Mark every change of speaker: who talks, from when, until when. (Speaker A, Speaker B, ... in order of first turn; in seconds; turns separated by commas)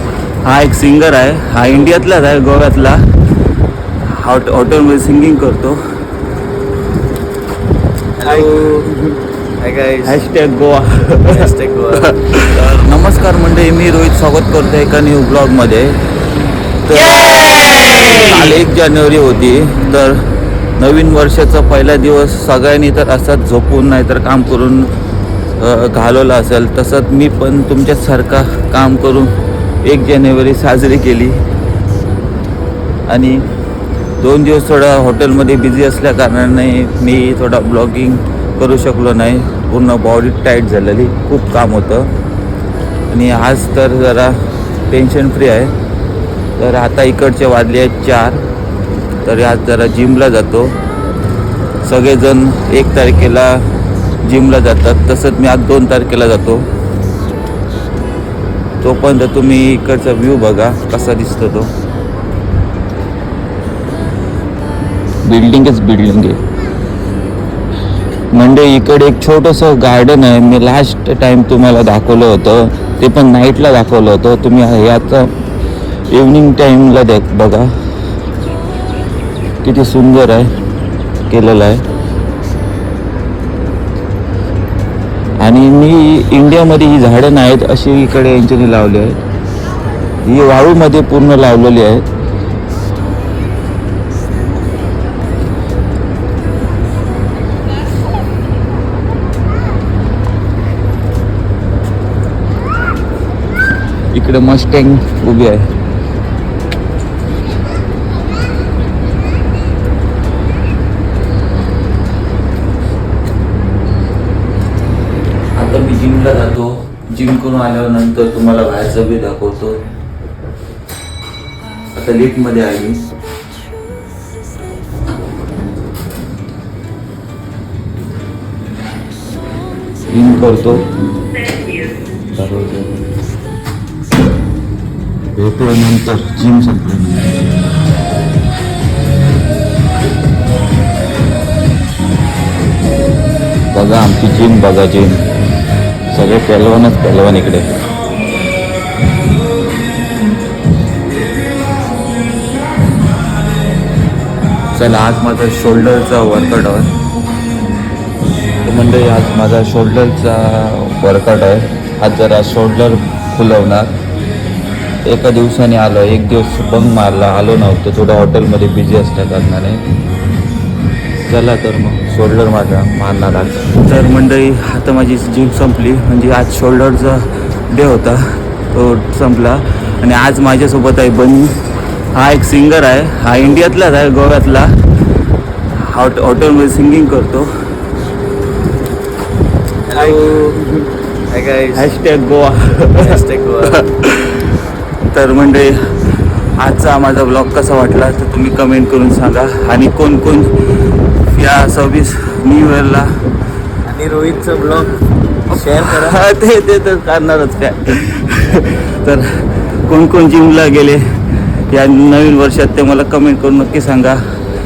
Speaker A: 0.4-3.0, Speaker A: 4.0-5.8, Speaker B: 8.2-8.9, Speaker A: 8.2-9.2, Speaker B: 9.6-10.2, Speaker A: 10.1-11.5, Speaker B: 11.3-12.2, Speaker A: 12.3-16.0, Speaker A: 16.8-20.2, Speaker A: 20.8-24.9, Speaker A: 25.6-29.3, Speaker A: 29.8-31.4, Speaker A: 33.1-33.4, Speaker A: 34.2-42.1, Speaker A: 43.1-45.7, Speaker A: 46.6-48.4, Speaker A: 49.2-50.8, Speaker A: 51.8-53.6, Speaker A: 54.2-56.6, Speaker A: 58.8-61.7, Speaker A: 65.2-66.4, Speaker A: 68.3-75.3, Speaker A: 76.1-77.7, Speaker A: 79.6-80.5, Speaker A: 81.3-81.8, Speaker A: 85.4-89.2, Speaker A: 90.2-92.0, Speaker A: 104.1-105.7, Speaker A: 115.5-119.8, Speaker A: 121.9-123.0, Speaker A: 130.1-130.9, Speaker A: 132.3-133.0, Speaker A: 135.3-137.3, Speaker A: 143.7-145.3, Speaker A: 146.1-147.7, Speaker A: 154.7-156.9, Speaker A: 158.6-164.0, Speaker A: 165.1-169.8, Speaker A: 171.2-181.6, Speaker A: 182.1-184.8, Speaker A: 185.7-187.5, Speaker B: 189.8-190.6, Speaker A: 189.9-190.9, Speaker B: 191.3-191.9, Speaker A: 191.7-203.1, Speaker B: 193.0-193.8, Speaker B: 203.8-206.2, Speaker A: 205.6-209.3, Speaker A: 209.9-211.0, Speaker A: 211.7-214.2